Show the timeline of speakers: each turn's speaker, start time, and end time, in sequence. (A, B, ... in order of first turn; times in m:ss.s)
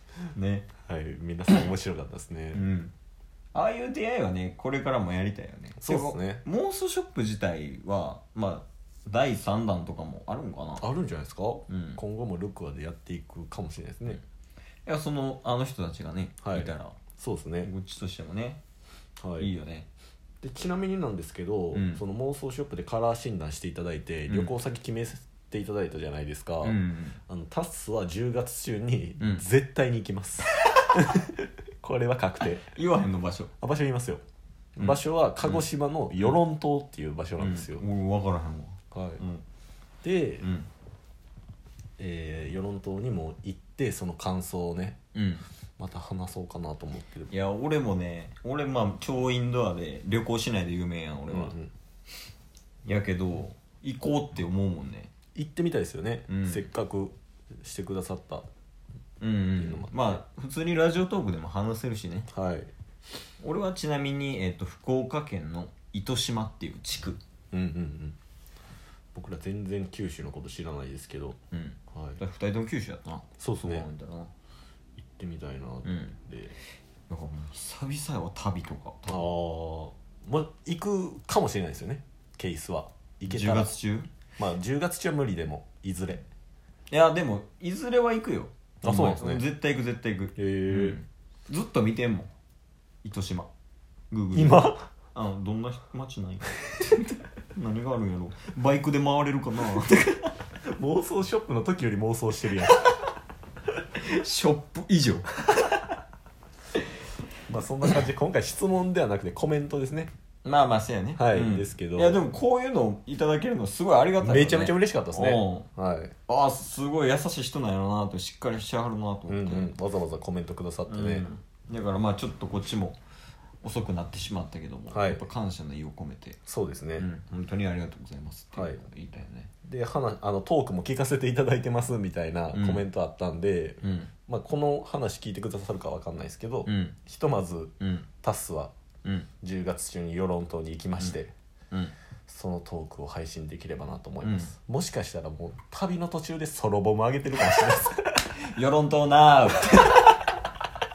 0:00.4-0:00.7 A
0:00.9-0:02.6 B
0:02.5-0:02.9 A
0:03.5-0:10.8 A
0:05.8-0:06.4 B
0:10.8-0:14.2 B
0:11.7-0:12.0 A
0:14.9-0:17.0 A
0:16.4-0:17.7 B
0:17.6-0:18.6 A
0:19.2-0:19.5 B
0:19.4-0:19.9 A
0:20.4-0:32.7 B
0:21.7-0:22.0 A
0:26.6-0:27.2 A
0:32.7-0:33.5 A
0:33.6-0:34.2 B
0:34.8-0:37.8 B
0:34.8-0:35.6 A
0:37.4-0:39.4 A
0:38.9-0:39.2 B
0:40.0-0:40.5 B
0:40.4-0:40.7 A
0:42.0-0:45.0 B
0:45.1-0:45.4 A
0:45.8-0:47.3 B
0:47.3-0:51.6 A
0:51.3-0:51.7 B
0:52.8-0:55.1 A
0:55.4-0:58.5 B
0:56.3-0:56.7 A
0:59.2-1:02.3 A
0:59.6-1:00.2 B
1:02.3-1:02.7 B
1:03.4-1:07.2 A
1:07.5-1:08.2 B
1:09.1-1:11.4 B
1:11.5-1:14.3 A
1:11.9-1:12.2 B
1:13.4-1:13.9 B
1:15.0-1:16.6 B
1:15.8-1:16.2 A
1:17.1-1:19.3 A
1:19.1-1:23.8 B
1:23.3-1:24.1 A
1:24.4-1:26.2 B
1:26.9-1:32.3 A
1:28.8-1:29.5 B
1:30.4-1:31.0 B
1:33.0-1:33.5 A
1:34.1-1:40.3 A
1:34.3-1:34.9 B
1:40.6-1:42.8 B
1:44.0-1:45.4 A
1:47.5-1:50.1 B
1:50.4-1:55.7 A
1:51.2-1:52.2 B
1:54.2-1:56.2 B
1:56.3-1:59.7 A
1:59.3-2:01.3 B
2:00.9-2:03.0 A
2:03.6-2:06.4 A
2:04.9-2:05.3 B
2:06.5-2:07.1 B
2:07.0-2:09.5 A
2:08.6-2:08.8 B
2:09.6-2:18.7 B
2:12.5-2:12.8 A
2:13.8-2:14.1 A
2:16.7-2:17.0 A
2:17.8-2:18.1 A
2:19.4-2:21.3 B
2:22.3-2:28.2 B
2:24.2-2:24.5 A
2:28.4-2:30.0 A